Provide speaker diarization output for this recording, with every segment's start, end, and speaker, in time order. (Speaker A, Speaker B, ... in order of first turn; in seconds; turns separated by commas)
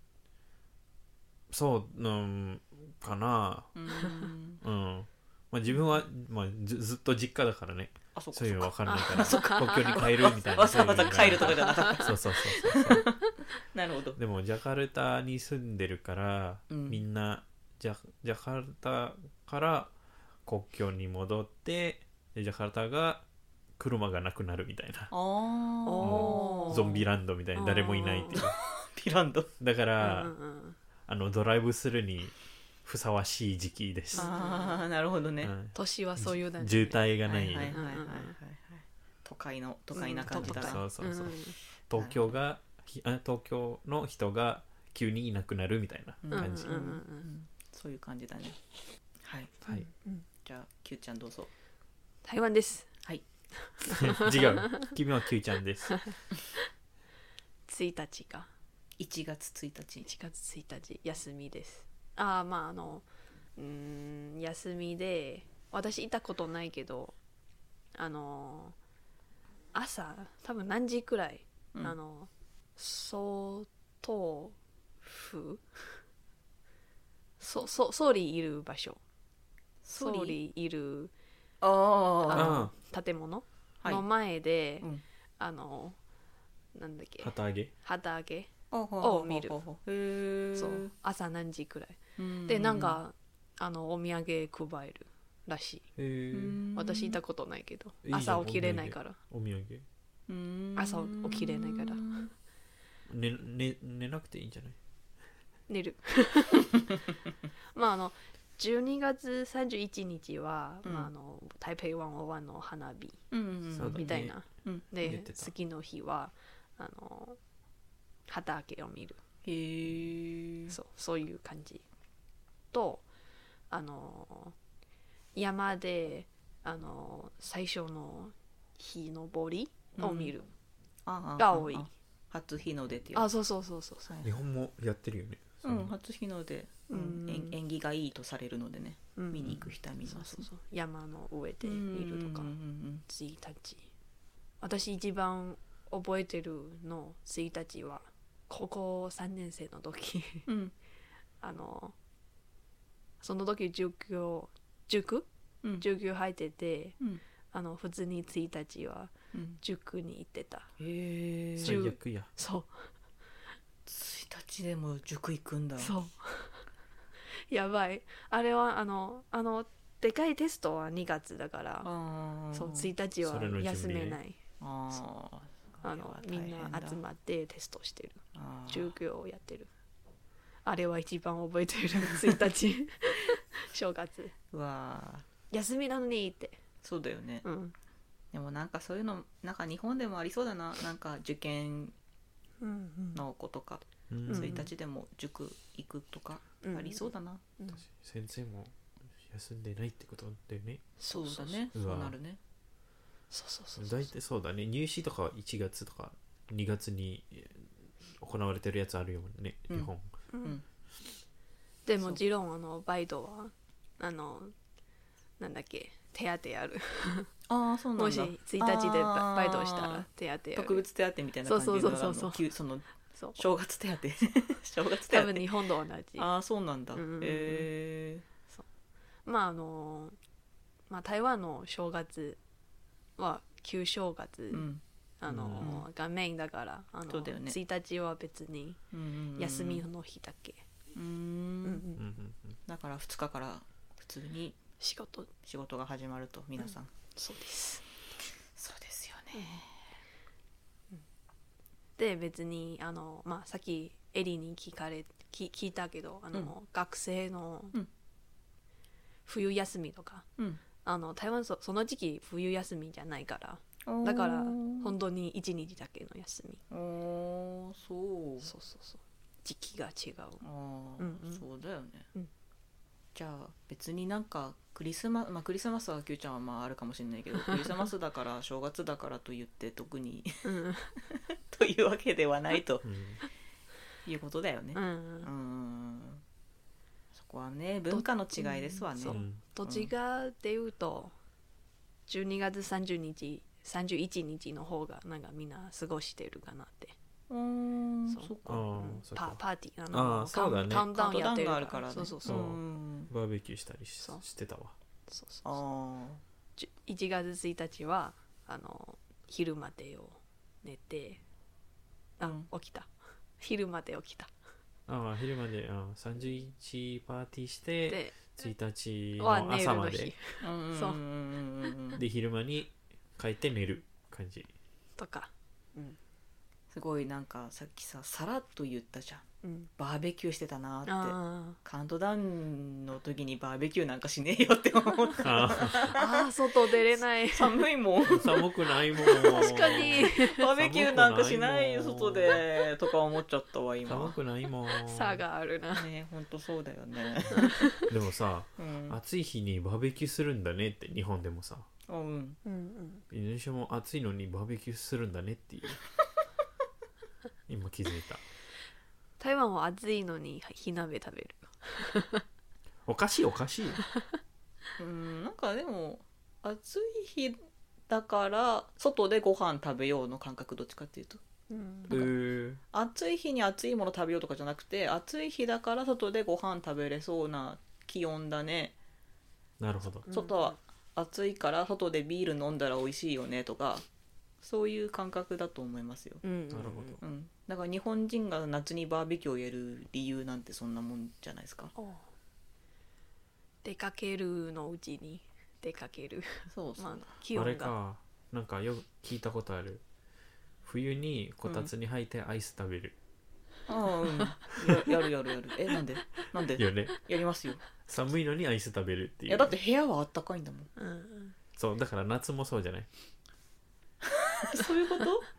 Speaker A: 1.5-3.7, Speaker B: 3.7-4.6, Speaker A: 4.6-13.1, Speaker B: 8.1-14.2, Speaker C: 8.9-10.1, Speaker C: 11.2-12.0, Speaker A: 14.2-19.9, Speaker B: 16.7-17.0, Speaker A: 20.4-23.2, Speaker A: 23.8-25.1, Speaker B: 25.1-26.9, Speaker C: 25.9-27.0, Speaker A: 26.0-28.6, Speaker C: 27.5-28.4, Speaker B: 28.3-29.5, Speaker A: 29.6-30.3, Speaker C: 30.0-30.8, Speaker A: 31.1-34.3, Speaker C: 34.1-34.8, Speaker B: 34.1-35.5, Speaker A: 35.4-37.8, Speaker C: 35.7-37.1, Speaker B: 37.2-40.8, Speaker C: 37.6-38.4, Speaker C: 39.9-41.6, Speaker A: 40.3-46.9, Speaker B: 41.9-42.3, Speaker B: 46.2-48.5, Speaker C: 46.3-47.3, Speaker B: 49.2-49.6, Speaker C: 49.7-50.2, Speaker B: 50.4-51.5, Speaker C: 52.2-52.9, Speaker C: 53.6-54.9, Speaker A: 53.9-56.0, Speaker C: 57.7-58.5, Speaker B: 59.0-60.1, Speaker C: 60.0-63.0, Speaker C: 63.5-67.2, Speaker C: 67.9-68.8, Speaker C: 69.7-76.0, Speaker C: 77.4-79.0, Speaker B: 79.8-80.4, Speaker C: 80.0-81.1, Speaker B: 81.6-82.6, Speaker C: 82.3-84.9, Speaker A: 82.3-82.7, Speaker C: 85.4-86.0, Speaker C: 86.7-89.6, Speaker A: 87.2-87.7, Speaker B: 88.7-90.9, Speaker C: 90.5-95.8, Speaker B: 92.2-93.0, Speaker A: 96.0-96.6, Speaker B: 96.3-97.2, Speaker C: 96.7-99.2, Speaker A: 98.0-99.8, Speaker B: 100.3-102.3, Speaker C: 100.8-102.2, Speaker A: 103.1-104.8, Speaker C: 105.7-106.8, Speaker C: 107.7-113.2, Speaker B: 110.8-111.1, Speaker B: 113.3-114.9, Speaker A: 113.7-114.3, Speaker C: 113.9-117.4, Speaker A: 115.0-115.5, Speaker C: 118.3-119.2, Speaker B: 119.4-120.7, Speaker C: 120.7-121.8, Speaker C: 122.7-123.0, Speaker C: 123.7-124.5, Speaker C: 125.3-130.5, Speaker B: 130.0-130.3, Speaker B: 131.1-133.3, Speaker C: 131.4-131.9, Speaker C: 133.1-134.1, Speaker B: 134.1-134.3, Speaker A: 134.2-135.9, Speaker B: 135.6-140.4, Speaker C: 136.9-137.6, Speaker C: 139.2-142.5, Speaker B: 141.6-143.0, Speaker C: 143.1-143.9, Speaker C: 144.6-150.5, Speaker B: 150.5-150.7, Speaker C: 151.4-151.9, Speaker C: 153.2-155.3, Speaker C: 155.8-157.0, Speaker C: 157.5-160.7, Speaker B: 159.3-159.6, Speaker B: 160.8-161.8, Speaker A: 161.6-162.3, Speaker C: 161.6-162.9, Speaker B: 163.8-165.9, Speaker C: 165.8-166.6, Speaker C: 167.5-171.9, Speaker B: 171.8-172.9, Speaker C: 172.5-174.4, Speaker A: 173.2-174.2, Speaker B: 174.6-177.0, Speaker C: 175.8-179.7, Speaker B: 178.3-178.9, Speaker C: 180.6-184.3, Speaker B: 184.5-185.2, Speaker C: 185.5-186.6, Speaker B: 186.8-187.4, Speaker C: 187.4-187.7, Speaker B: 188.3-191.9, Speaker C: 192.6-193.2, Speaker B: 193.1-197.4, Speaker A: 194.1-194.6, Speaker C: 194.3-194.7, Speaker C: 196.6-197.8, Speaker A: 197.8-200.9, Speaker C: 201.0-201.6, Speaker B: 201.1-202.4, Speaker A: 201.7-202.2, Speaker C: 203.3-204.1, Speaker A: 203.8-210.1, Speaker B: 209.7-210.6, Speaker C: 210.3-210.6, Speaker C: 211.8-214.5, Speaker C: 215.4-217.3, Speaker B: 217.5-225.5, Speaker C: 218.0-220.8, Speaker C: 221.4-222.4, Speaker C: 223.1-223.4, Speaker C: 225.1-226.3, Speaker B: 226.2-228.2, Speaker C: 226.9-227.7, Speaker C: 229.2-230.2, Speaker C: 230.9-232.4, Speaker C: 233.2-234.7, Speaker B: 234.5-234.8, Speaker C: 235.2-238.8, Speaker A: 235.3-235.8, Speaker B: 235.6-235.9, Speaker B: 237.1-237.6, Speaker B: 238.9-239.8, Speaker C: 239.4-240.6, Speaker B: 240.9-241.9, Speaker C: 241.6-242.0, Speaker A: 242.0-242.6, Speaker B: 242.7-244.6, Speaker C: 244.8-245.3, Speaker B: 245.4-246.9, Speaker C: 247.2-247.8, Speaker B: 248.6-249.7, Speaker C: 249.3-249.6, Speaker C: 252.0-257.8, Speaker C: 259.2-260.2, Speaker C: 260.8-266.6, Speaker B: 263.9-264.9, Speaker B: 266.7-268.5, Speaker C: 268.4-270.4, Speaker B: 270.4-272.0, Speaker C: 271.0-271.4, Speaker B: 273.1-280.4, Speaker C: 280.4-280.9, Speaker B: 281.1-282.9, Speaker A: 282.8-283.2, Speaker B: 284.1-286.2, Speaker C: 284.7-285.3, Speaker B: 287.1-289.9, Speaker C: 287.9-291.1, Speaker A: 289.1-289.4, Speaker C: 292.1-296.9, Speaker B: 297.3-298.7, Speaker C: 298.1-302.5, Speaker A: 298.4-300.9, Speaker B: 300.7-303.1, Speaker A: 302.2-304.7, Speaker C: 305.1-305.5, Speaker B: 305.4-306.2, Speaker C: 306.6-311.2, Speaker C: 312.2-314.3, Speaker B: 312.2-312.5, Speaker A: 314.9-320.1, Speaker C: 317.9-318.3, Speaker C: 319.2-321.0, Speaker B: 320.4-322.0, Speaker A: 322.0-324.5, Speaker C: 325.0-326.0, Speaker B: 326.7-329.2, Speaker C: 329.4-329.7, Speaker B: 329.8-336.2, Speaker C: 330.9-331.6, Speaker A: 335.2-336.0, Speaker C: 335.7-337.6, Speaker B: 337.3-338.5, Speaker A: 338.0-342.4, Speaker C: 339.0-340.5, Speaker B: 339.0-344.1, Speaker A: 343.9-345.2, Speaker C: 344.8-345.9, Speaker B: 345.7-347.6, Speaker C: 347.3-347.8, Speaker A: 347.9-351.7, Speaker B: 348.6-349.0, Speaker B: 351.9-352.4, Speaker C: 352.4-353.0, Speaker A: 353.1-355.8, Speaker A: 357.5-358.2, Speaker C: 359.2-362.2, Speaker A: 362.9-363.8, Speaker B: 364.8-367.4, Speaker B: 367.9-371.2, Speaker C: 371.5-372.0, Speaker B: 371.9-372.1, Speaker A: 371.9-372.6, Speaker B: 372.7-378.8, Speaker A: 379.6-380.1, Speaker C: 380.1-380.6, Speaker B: 380.1-383.8, Speaker B: 384.4-386.2, Speaker C: 386.2-387.0, Speaker A: 386.5-387.0, Speaker B: 387.0-391.7, Speaker C: 391.7-392.1, Speaker C: 393.6-397.7, Speaker B: 396.5-397.1, Speaker A: 397.3-399.8, Speaker A: 400.6-402.9, Speaker B: 401.4-401.7, Speaker B: 403.7-407.6, Speaker A: 406.6-406.9, Speaker A: 407.8-409.6, Speaker B: 409.3-410.7, Speaker C: 410.8-411.3, Speaker A: 411.6-412.9, Speaker B: 414.0-415.2, Speaker C: 414.5-415.1